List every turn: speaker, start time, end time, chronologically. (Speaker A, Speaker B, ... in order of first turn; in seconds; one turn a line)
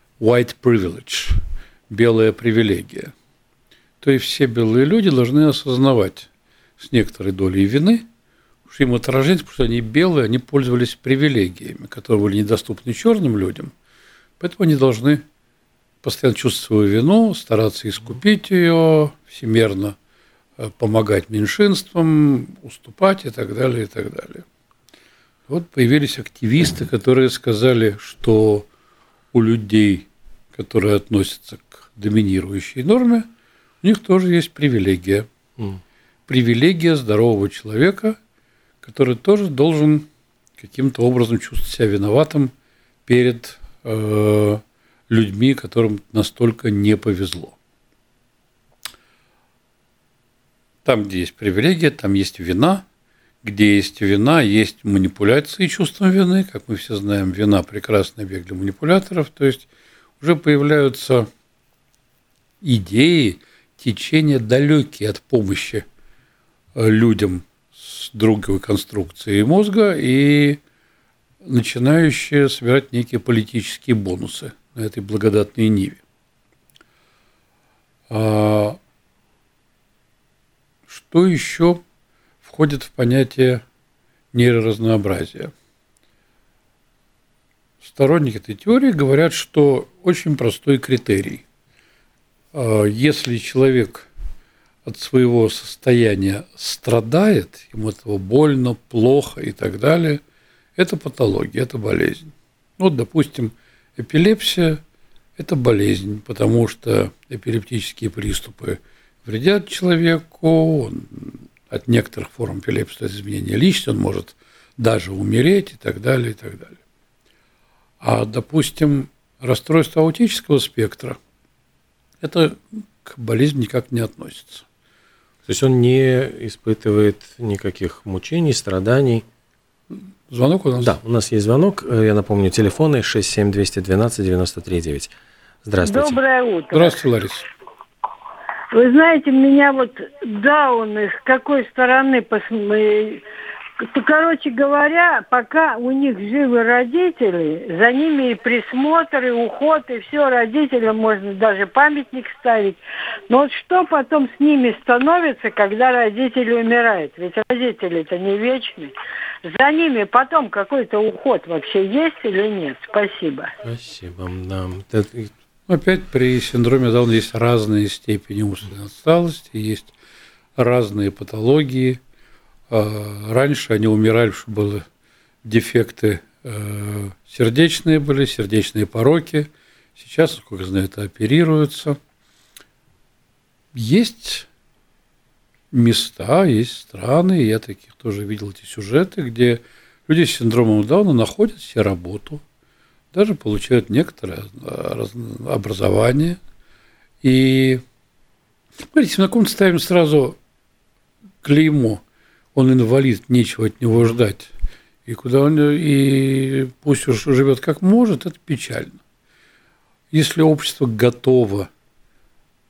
Speaker A: 0.2-1.4
Speaker A: 1.9-3.1
Speaker A: 4.0-8.1
Speaker A: 8.7-13.7
Speaker A: 14.4-15.2
Speaker A: 16.0-20.0
Speaker A: 20.6-24.4
Speaker A: 25.5-28.7
Speaker A: 29.3-33.3
Speaker A: 33.8-35.3
Speaker A: 36.3-38.2
Speaker A: 38.8-42.5
Speaker A: 43.1-47.6
Speaker A: 50.9-52.9
Speaker A: 53.4-59.7
Speaker A: 60.2-61.3
Speaker A: 62.6-65.8
Speaker A: 66.8-70.6
Speaker A: 71.4-76.0
Speaker A: 78.1-78.8
Speaker A: 80.9-81.8
Speaker A: 82.4-83.6
Speaker A: 84.3-85.5
Speaker A: 87.8-91.5
Speaker A: 92.5-94.1
Speaker A: 94.9-100.2
Speaker A: 100.8-104.8
Speaker A: 105.4-116.8
Speaker A: 118.0-121.2
Speaker A: 122.2-124.7
Speaker B: 125.5-129.2
Speaker A: 130.3-131.0
Speaker B: 130.8-135.1
Speaker B: 135.7-136.2
Speaker C: 135.8-137.0
Speaker A: 136.7-137.5
Speaker C: 138.7-143.2
Speaker C: 143.8-158.9
Speaker C: 159.4-163.5
Speaker B: 163.6-165.3
Speaker A: 165.7-169.9
Speaker A: 170.6-172.0
Speaker A: 172.7-174.8
Speaker A: 175.4-182.0
Speaker A: 183.7-184.5
Speaker A: 185.7-192.4
Speaker A: 193.1-196.4
Speaker A: 197.2-197.8
Speaker A: 198.8-200.4
Speaker A: 201.4-202.0
Speaker A: 202.6-204.5
Speaker A: 205.1-209.0
Speaker A: 210.1-211.7